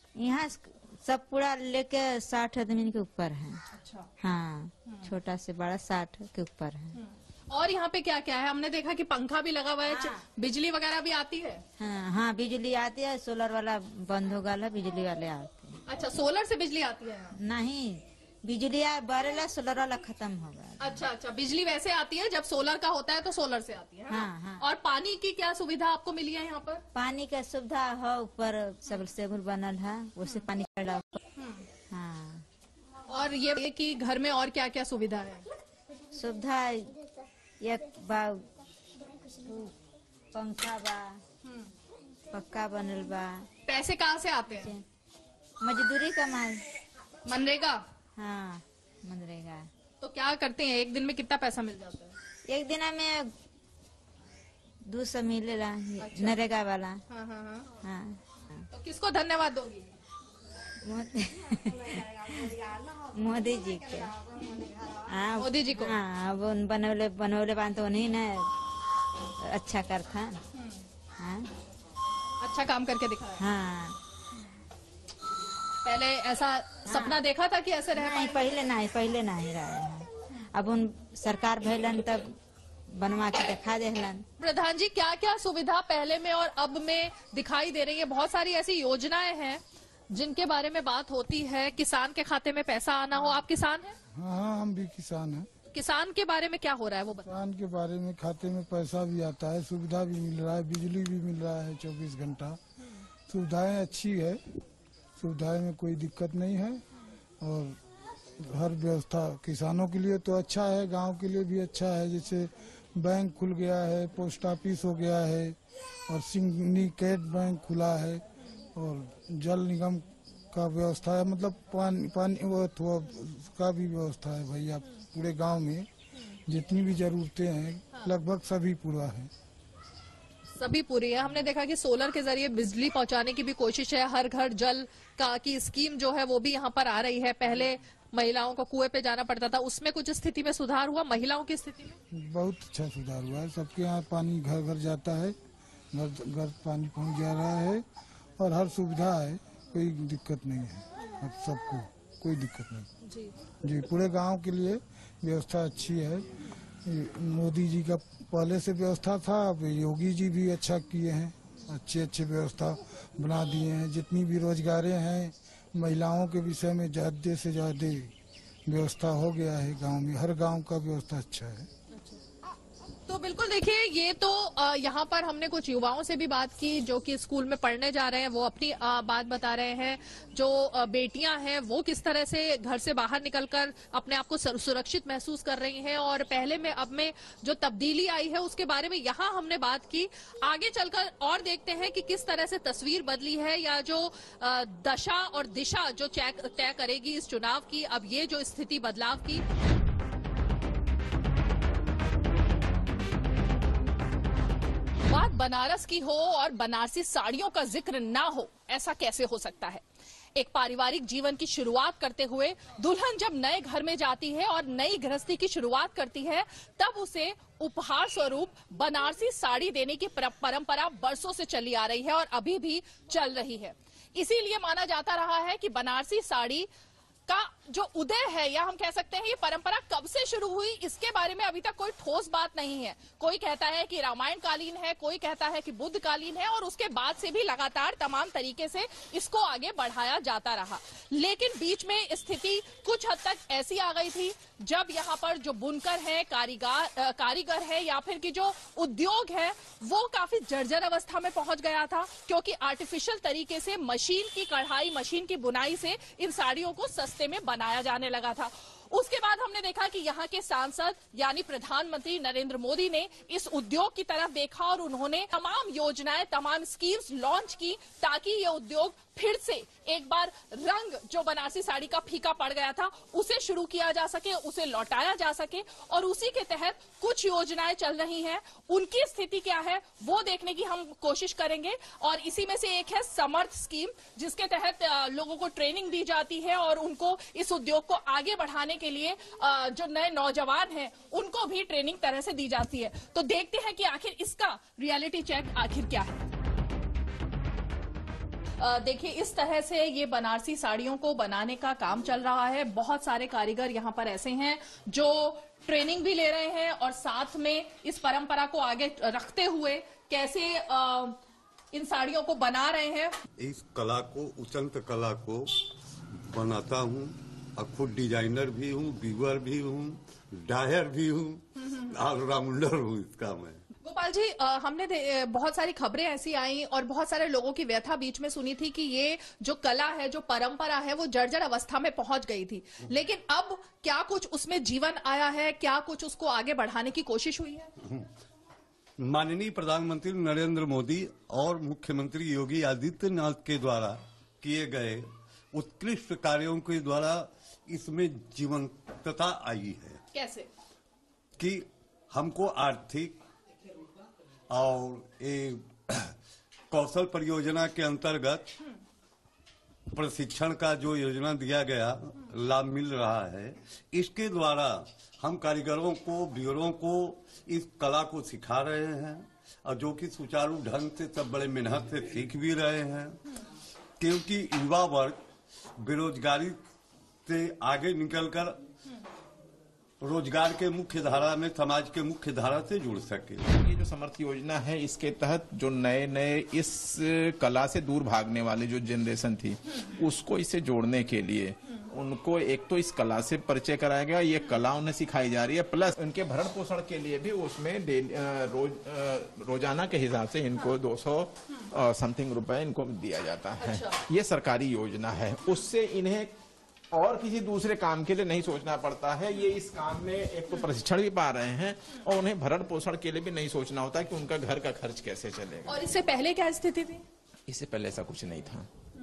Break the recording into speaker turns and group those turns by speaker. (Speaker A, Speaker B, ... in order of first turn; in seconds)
Speaker A: 0.2-3.6, 4.2-7.0, 9.8-10.2, 11.8-15.8, 17.3-21.1, 24.1-24.6, 26.9-31.2, 31.9-32.4, 36.1-37.0, 37.6-38.4, 39.4-39.7, 40.3-41.2, 42.3-43.5, 44.5-44.8, 45.6-46.7, 48.1-49.7, 52.5-53.3, 54.9-57.0, 57.8-58.6, 60.8-62.6, 63.1-68.5, 69.4-70.4, 71.2-71.5, 73.4-74.0, 76.9-77.2, 77.9-82.4, 82.9-84.2
Speaker B: 3.7-4.1, 7.0-11.6, 15.9-17.4, 20.8-26.8, 31.4-31.6, 33.1-35.4, 41.4-41.7, 43.6-44.7, 47.2-47.8, 50.0-52.1, 56.0-56.4, 57.1-57.7, 58.7-59.9, 65.4-66.0, 72.4-73.4, 75.8-78.4, 84.4-93.9, 95.7-97.3, 130.6-142.0, 153.0-153.3, 171.9-172.2, 173.1-199.4, 205.1-209.8, 210.3-226.7, 227.3-296.2, 298.6-311.2, 311.7-313.2, 323.8-337.7, 350.1-350.5, 403.6-404.0, 415.7-417.0
Speaker C: 94.1-95.5, 97.2-102.6, 103.3-104.4, 105.2-106.8, 107.4-107.8, 108.4-115.5, 116.1-118.2, 118.7-125.9, 126.5-129.3, 142.1-145.3, 145.9-147.8, 148.4-152.9, 153.6-156.2, 156.8-168.1, 168.7-171.7
Speaker D: 313.4-315.5, 316.3-323.6, 339.0-350.0, 351.4-353.2, 354.5-356.1, 356.7-358.4, 359.9-373.2, 374.0-375.2, 375.8-376.6, 377.2-378.5, 380.0-383.4
Speaker E: 383.4-406.3, 406.9-415.8, 417.5-418.7